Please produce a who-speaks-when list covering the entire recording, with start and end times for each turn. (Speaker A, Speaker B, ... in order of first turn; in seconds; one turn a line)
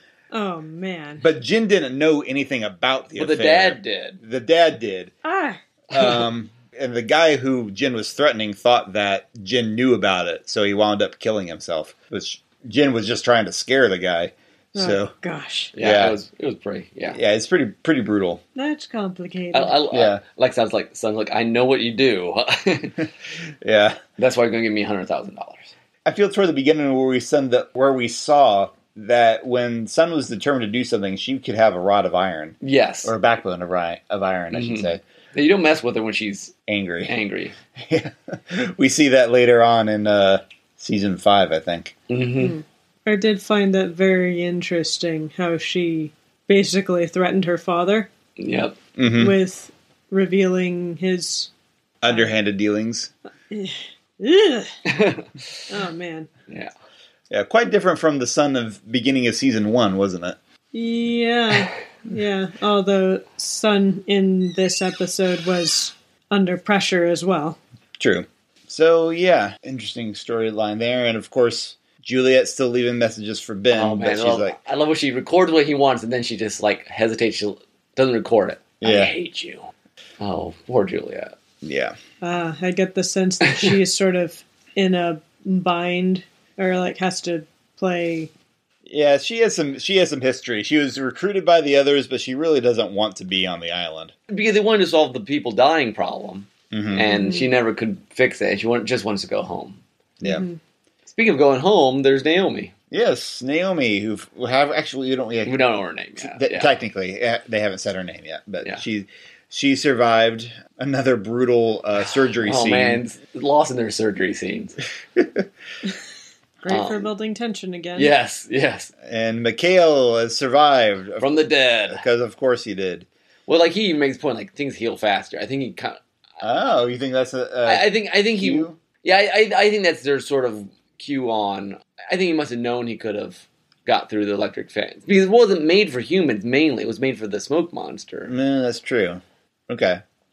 Speaker A: 0.3-1.3
Speaker B: 1.2-5.1
Speaker C: 3.2-4.2
Speaker A: 5.2-5.6
Speaker B: 5.9-15.1
Speaker C: 5.9-6.3
Speaker A: 14.7-15.7
Speaker C: 15.7-17.2
Speaker B: 15.8-16.2
Speaker B: 17.1-18.4
Speaker A: 18.5-19.8
Speaker C: 19.5-23.1
Speaker B: 19.9-20.2
Speaker B: 23.6-24.0
Speaker C: 24.2-25.7
Speaker B: 26.1-35.0
Speaker C: 32.6-33.1
Speaker C: 34.5-37.5
Speaker B: 36.7-37.1
Speaker B: 37.8-41.9
Speaker C: 42.1-42.5
Speaker A: 42.4-48.1
Speaker C: 48.4-48.8
Speaker B: 49.0-49.4
Speaker A: 49.2-51.5
Speaker B: 52.0-53.1
Speaker A: 53.5-54.7
Speaker C: 54.9-55.3
Speaker A: 55.7-56.3
Speaker B: 57.3-60.4
Speaker A: 60.7-67.6
Speaker B: 68.0-74.5
Speaker C: 73.7-81.3
Speaker B: 78.8-79.1
Speaker B: 81.6-81.9
Speaker A: 82.2-88.3
Speaker B: 88.8-94.1
Speaker C: 94.3-99.8
Speaker B: 96.7-97.1
Speaker A: 97.0-97.5
Speaker A: 100.2-100.6
Speaker C: 101.0-102.7
Speaker B: 102.9-105.6
Speaker C: 105.4-106.8
Speaker B: 106.2-113.0
Speaker C: 112.3-114.8
Speaker A: 116.6-118.1
Speaker C: 116.7-117.1
Speaker C: 117.9-118.9
Speaker B: 119.0-121.3
Speaker C: 121.2-122.0
Speaker B: 121.8-123.1
Speaker C: 123.5-126.0
Speaker B: 126.4-128.8
Speaker C: 127.6-138.3
Speaker B: 138.3-140.0